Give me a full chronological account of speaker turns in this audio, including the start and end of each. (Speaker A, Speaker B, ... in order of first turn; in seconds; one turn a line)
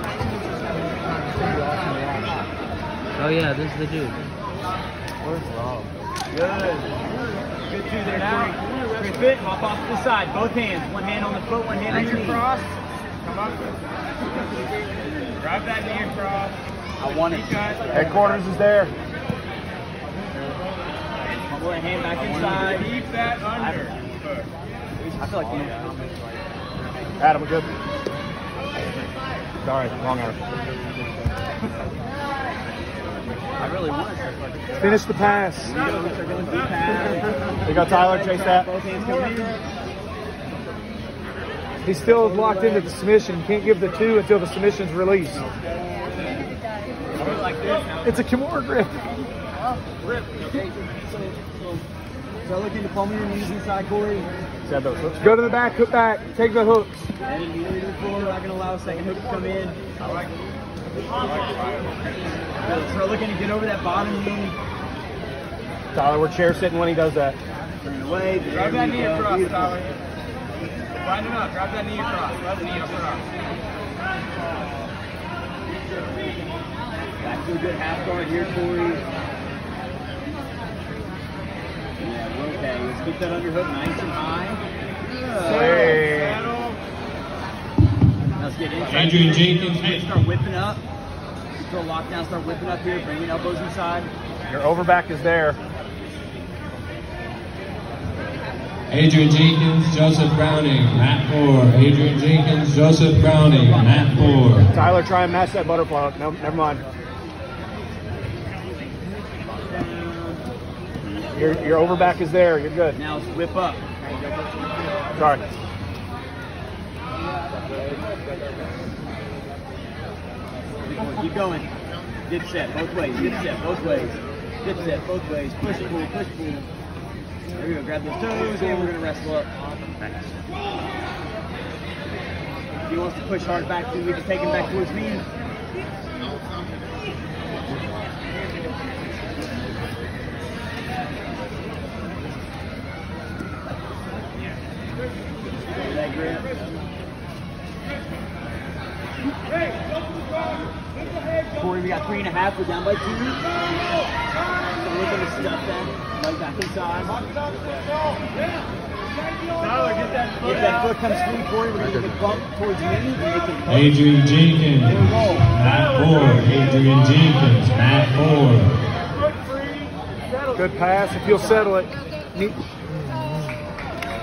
Speaker A: 1.2-2.4
Speaker A: 3.1-4.2
Speaker A: 5.2-5.9
Speaker B: 6.3-7.0
Speaker B: 7.7-12.4
Speaker C: 12.0-12.4
Speaker C: 13.2-13.8
Speaker C: 15.3-18.2
Speaker B: 17.0-18.4
Speaker D: 17.9-18.9
Speaker B: 21.2-22.9
Speaker C: 22.1-24.4
Speaker B: 23.5-24.4
Speaker B: 25.0-26.1
Speaker D: 27.2-27.8
Speaker D: 29.6-30.4
Speaker B: 33.6-34.4
Speaker E: 34.8-35.8
Speaker B: 35.6-39.6
Speaker D: 37.6-38.7
Speaker E: 41.8-45.4
Speaker B: 42.0-42.9
Speaker B: 47.2-48.0
Speaker C: 47.2-47.8
Speaker E: 48.0-48.9
Speaker B: 51.1-51.8
Speaker B: 52.4-54.3
Speaker D: 54.6-55.5
Speaker E: 55.2-57.1
Speaker B: 57.2-59.8
Speaker C: 60.0-60.3
Speaker C: 61.1-62.7
Speaker B: 62.6-64.6
Speaker D: 65.9-67.4
Speaker B: 67.8-69.8
Speaker C: 68.5-69.9
Speaker C: 71.0-73.3
Speaker B: 77.2-79.0
Speaker B: 82.0-86.0
Speaker D: 85.4-86.4
Speaker E: 85.5-86.0
Speaker C: 86.2-86.8
Speaker B: 88.3-90.8
Speaker F: 88.9-90.0
Speaker B: 91.6-94.1
Speaker D: 94.5-95.6
Speaker F: 98.9-104.7
Speaker B: 103.4-104.6
Speaker D: 104.7-106.8
Speaker B: 109.6-110.5
Speaker B: 111.0-111.3
Speaker D: 111.3-113.0
Speaker B: 112.9-113.9
Speaker D: 115.1-115.6
Speaker B: 120.8-121.7
Speaker B: 122.3-126.7
Speaker B: 127.5-129.5
Speaker B: 132.9-135.2
Speaker B: 145.8-146.5
Speaker B: 151.5-153.4
Speaker B: 154.7-157.2
Speaker C: 159.6-160.5
Speaker B: 160.4-163.9
Speaker F: 163.7-168.7
Speaker B: 164.8-165.5
Speaker E: 170.5-173.5
Speaker B: 171.2-171.7